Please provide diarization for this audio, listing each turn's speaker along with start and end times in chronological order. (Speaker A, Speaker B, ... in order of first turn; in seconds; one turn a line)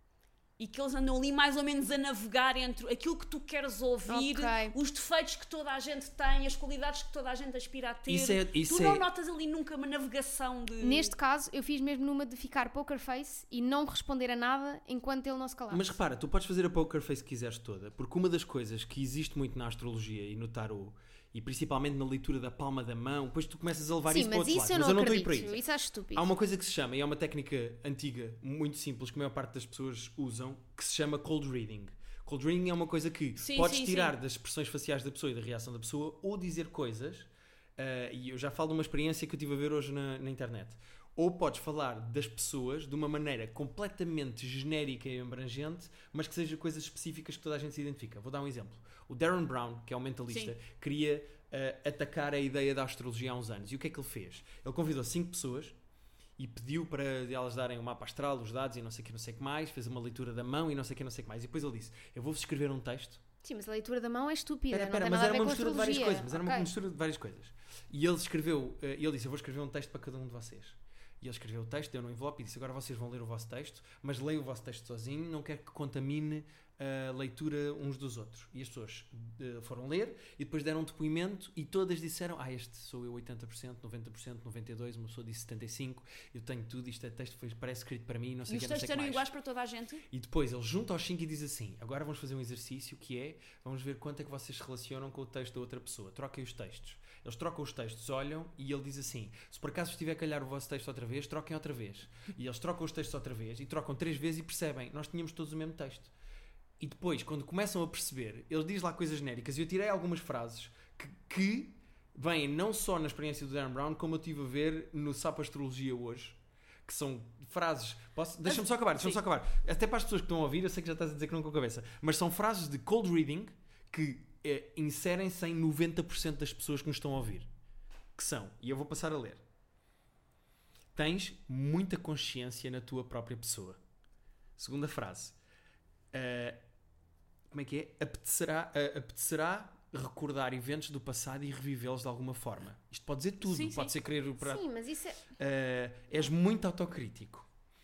Speaker A: 0.6-11.1
Speaker B: 4.1-4.8
Speaker C: 8.1-9.1
Speaker B: 10.8-16.0
Speaker C: 15.7-25.6
Speaker B: 24.1-26.3
Speaker C: 26.1-55.8
Speaker A: 33.4-34.1
Speaker C: 56.4-63.2
Speaker B: 63.4-66.7
Speaker C: 64.7-89.3
Speaker A: 88.5-90.0
Speaker C: 90.1-106.1
Speaker C: 106.8-127.5
Speaker A: 118.5-119.2
Speaker C: 128.2-129.4
Speaker C: 130.9-133.8
Speaker C: 134.6-135.4
Speaker C: 136.1-136.6
Speaker C: 137.5-144.6
Speaker A: 143.4-143.9
Speaker B: 144.4-145.3
Speaker C: 145.4-147.5